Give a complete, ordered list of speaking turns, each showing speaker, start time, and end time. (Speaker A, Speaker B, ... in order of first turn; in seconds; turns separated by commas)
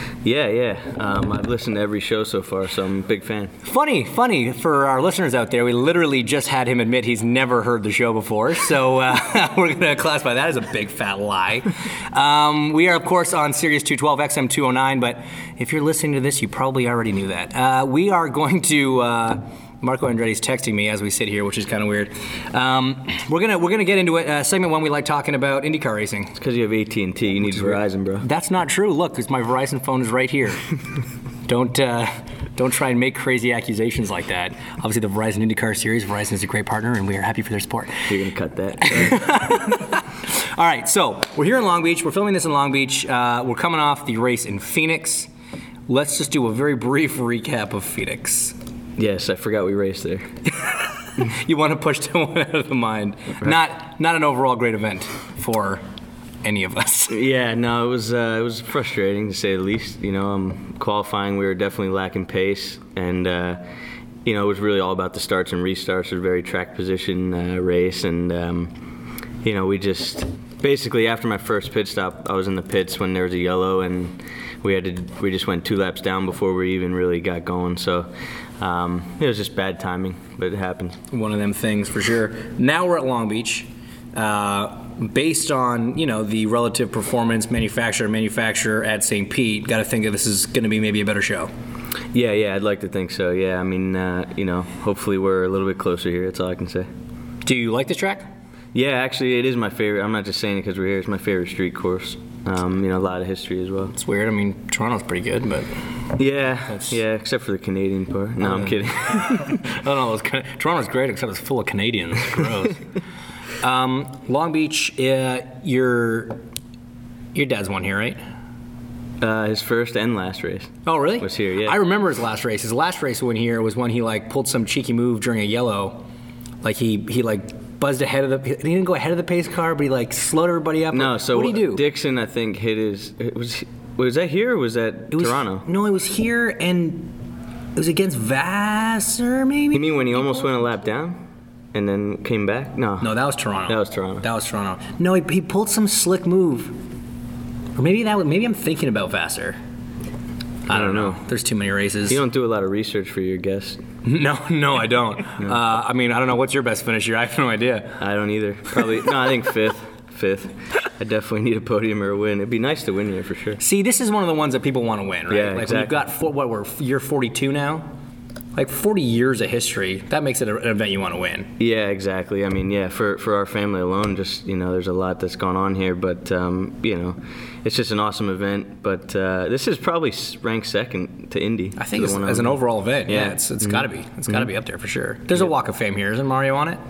Speaker A: 0.2-3.5, Speaker B: 3.6-26.4, Speaker A: 26.4-28.2, Speaker B: 27.4-30.6, Speaker B: 31.5-38.1, Speaker A: 38.1-39.3, Speaker B: 38.8-45.3, Speaker B: 45.9-48.5, Speaker A: 49.0-50.3, Speaker B: 50.6-55.8, Speaker B: 56.4-57.2, Speaker A: 57.1-63.6, Speaker A: 64.2-68.8, Speaker A: 69.4-81.0, Speaker B: 81.1-91.5, Speaker A: 92.1-96.9, Speaker B: 97.4-98.3, Speaker A: 98.7-103.9, Speaker B: 103.9-105.7, Speaker A: 106.2-109.5, Speaker B: 106.7-106.9, Speaker B: 108.4-112.8, Speaker B: 113.6-116.4, Speaker B: 117.3-118.2, Speaker A: 119.2-121.8, Speaker B: 120.8-126.0, Speaker B: 126.6-131.8, Speaker A: 130.9-135.7, Speaker B: 135.1-137.2, Speaker B: 137.8-140.5, Speaker A: 139.7-141.2, Speaker A: 141.7-144.2, Speaker B: 143.0-146.8, Speaker B: 147.8-149.6, Speaker B: 150.7-152.2, Speaker A: 150.7-151.2, Speaker A: 152.1-153.8, Speaker B: 154.0-158.0, Speaker A: 158.0-163.6, Speaker B: 163.6-167.9, Speaker A: 165.3-166.0, Speaker B: 168.5-171.5, Speaker A: 171.6-184.5, Speaker B: 181.8-186.8